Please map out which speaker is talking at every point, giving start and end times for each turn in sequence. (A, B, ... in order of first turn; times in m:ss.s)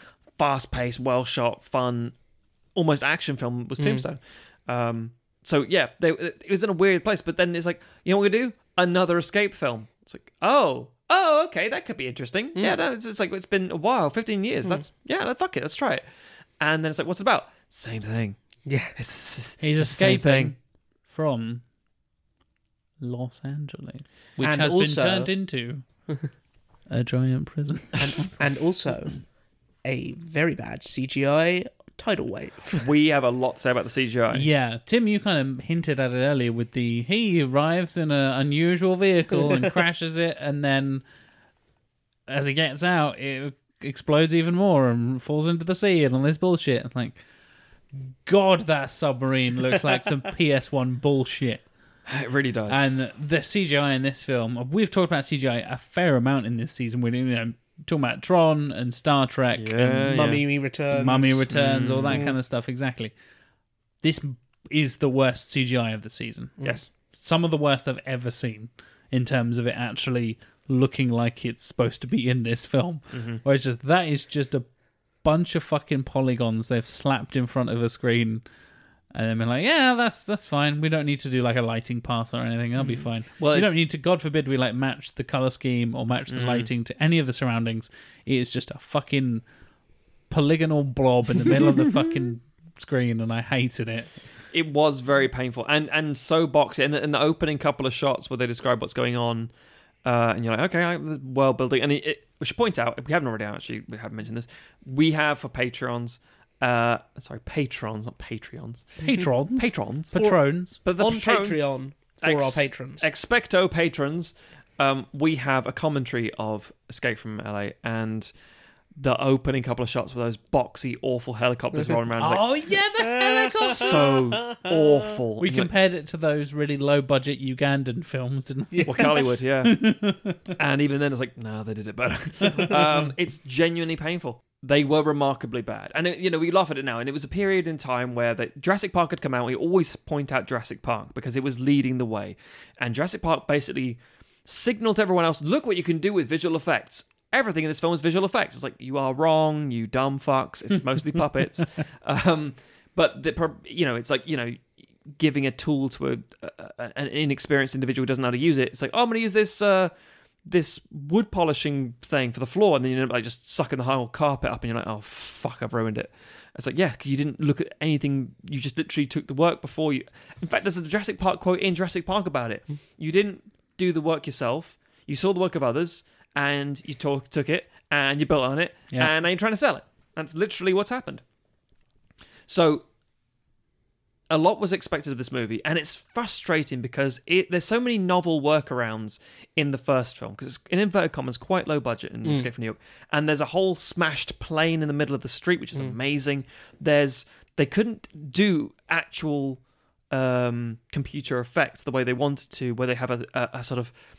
0:00.4-0:02.2 A
0:02.8-0:16.0 A
0:03.8-0:04.1 B
0:16.6-0:18.4 A
0:18.7-0:18.9 B
0:19.0-0:20.5 A
0:19.6-0:21.6 C
0:23.0-0:25.8 C
0:24.4-0:25.3 B
0:26.9-0:28.3 C
0:28.0-0:29.2 B
0:29.8-0:32.8 B
0:32.8-0:34.5 A
0:34.3-0:41.0 C
0:42.3-0:47.2 C
0:48.0-0:51.6 C
0:52.1-0:52.8 A
0:52.7-1:00.4 C
0:59.6-1:00.4 A
1:00.1-1:01.5 B
1:00.9-1:03.1 C
1:01.5-1:02.3 A
1:04.0-1:06.6 C
1:07.1-1:14.7 C
1:13.1-1:13.4 A
1:15.2-1:18.4 C
1:19.1-1:29.4 C
1:22.8-1:23.8 A
1:26.3-1:26.7 A
1:30.3-1:34.1 C
1:34.5-1:39.5 A
1:40.0-1:51.7 A
1:49.0-1:50.8 C
1:51.0-1:53.1 B
1:52.2-1:58.3 A
1:59.0-2:02.5 A
2:02.2-2:04.2 C
2:02.7-2:04.8 B
2:03.5-2:05.7 A
2:05.4-2:10.5 C
2:08.7-2:09.1 B
2:08.9-2:09.9 A
2:10.5-2:39.9 A
2:40.4-3:01.2 A
3:02.5-3:02.8 A
3:04.3-3:23.9 A